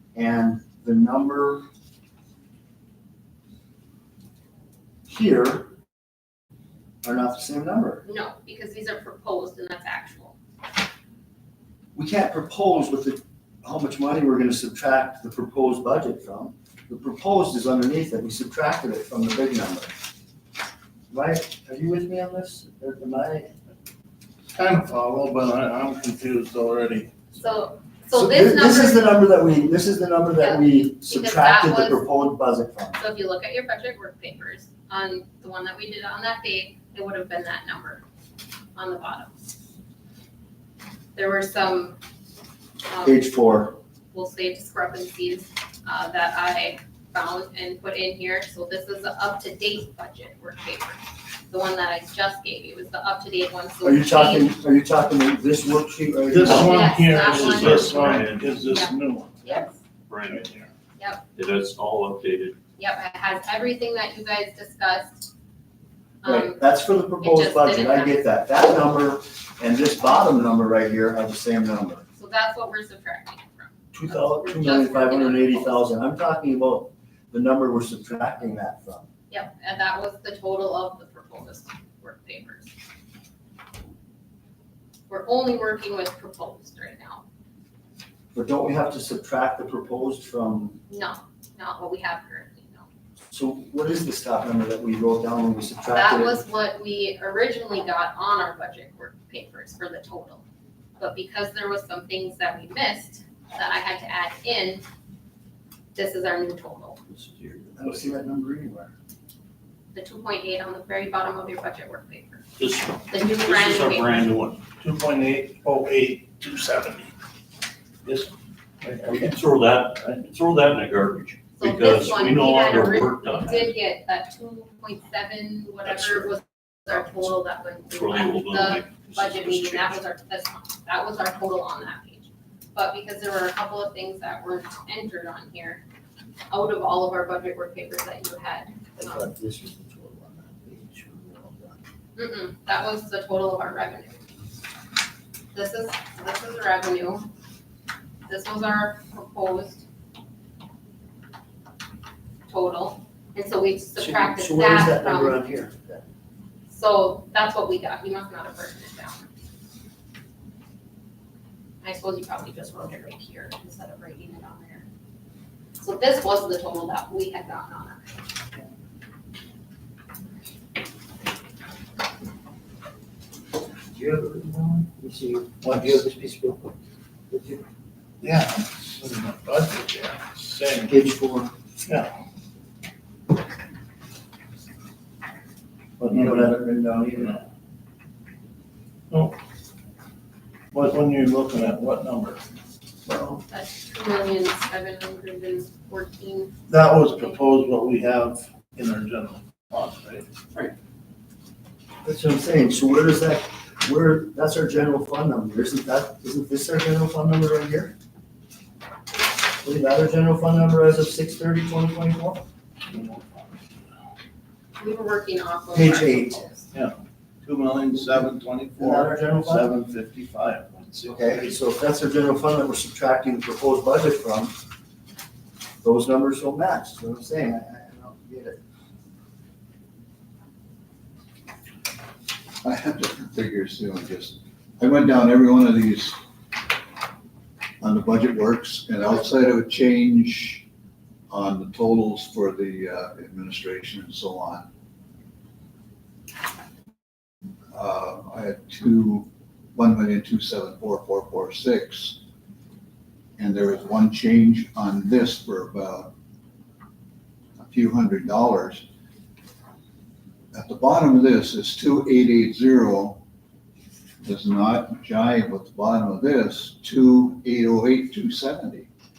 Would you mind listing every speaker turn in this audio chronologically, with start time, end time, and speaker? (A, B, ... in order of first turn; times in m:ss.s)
0:00.1-0:01.6 A
0:05.1-0:05.7 A
0:07.0-0:08.0 A
0:08.0-0:10.3 B
0:11.9-0:19.9 A
0:21.1-0:23.6 A
0:24.5-0:27.2 C
0:27.3-0:29.2 B
0:28.1-0:33.0 A
0:30.4-0:32.0 B
0:33.0-0:38.0 B
0:38.8-0:39.3 B
0:41.2-0:42.0 B
0:42.9-0:43.3 B
0:43.0-0:43.8 A
0:44.1-0:54.5 B
0:53.8-0:57.0 A
0:56.3-0:59.4 C
0:56.4-0:58.9 D
0:56.5-0:57.8 B
0:58.7-0:59.8 B
1:00.1-1:00.5 D
1:01.0-1:01.2 B
1:01.4-1:02.6 D
1:02.8-1:05.3 B
1:06.2-1:06.6 B
1:06.2-1:12.0 A
1:07.2-1:08.2 B
1:12.2-1:15.8 B
1:13.9-1:19.1 A
1:19.3-1:22.7 B
1:25.1-1:27.2 B
1:28.3-1:30.8 A
1:30.9-1:32.8 B
1:33.3-1:36.4 A
1:35.9-1:40.4 B
1:41.0-1:44.8 B
1:45.9-1:47.0 B
1:47.4-1:48.9 A
1:49.9-1:52.4 B
1:52.6-1:54.6 D
1:53.1-1:54.2 B
1:54.7-1:57.1 C
1:58.0-1:59.3 C
1:59.0-2:03.7 D
2:01.5-2:15.8 B
2:07.9-2:10.0 D
2:16.5-2:19.2 B
2:19.0-2:21.8 A
2:22.2-2:24.2 B
2:25.5-2:27.3 B
2:28.3-2:29.8 B
2:32.5-2:35.4 B
2:34.0-2:36.0 A
2:36.7-2:39.3 B
2:41.8-2:44.8 B
2:45.8-2:48.2 B
2:53.9-2:56.7 A
2:57.3-2:57.6 A
2:58.2-3:01.0 C
3:00.8-3:01.5 A
3:01.8-3:02.1 C
3:06.0-3:07.4 A
3:06.1-3:06.5 C
3:09.1-3:09.4 C
3:10.7-3:12.4 C
3:13.5-3:16.5 B
3:16.7-3:20.3 C
3:22.0-3:27.9 A
3:29.6-3:32.4 A
3:32.9-3:33.5 C
3:34.8-3:36.7 B
3:35.7-3:36.5 A
3:36.7-3:41.6 C
3:38.8-3:39.7 A
3:41.0-3:44.5 A
3:45.8-3:48.6 A
3:52.6-3:56.2 E
3:57.8-4:00.6 E
4:01.3-4:04.7 E
4:07.7-4:12.2 E
4:13.4-4:16.1 E
4:17.6-4:18.8 E
4:20.5-4:23.2 E
4:24.2-4:28.9 E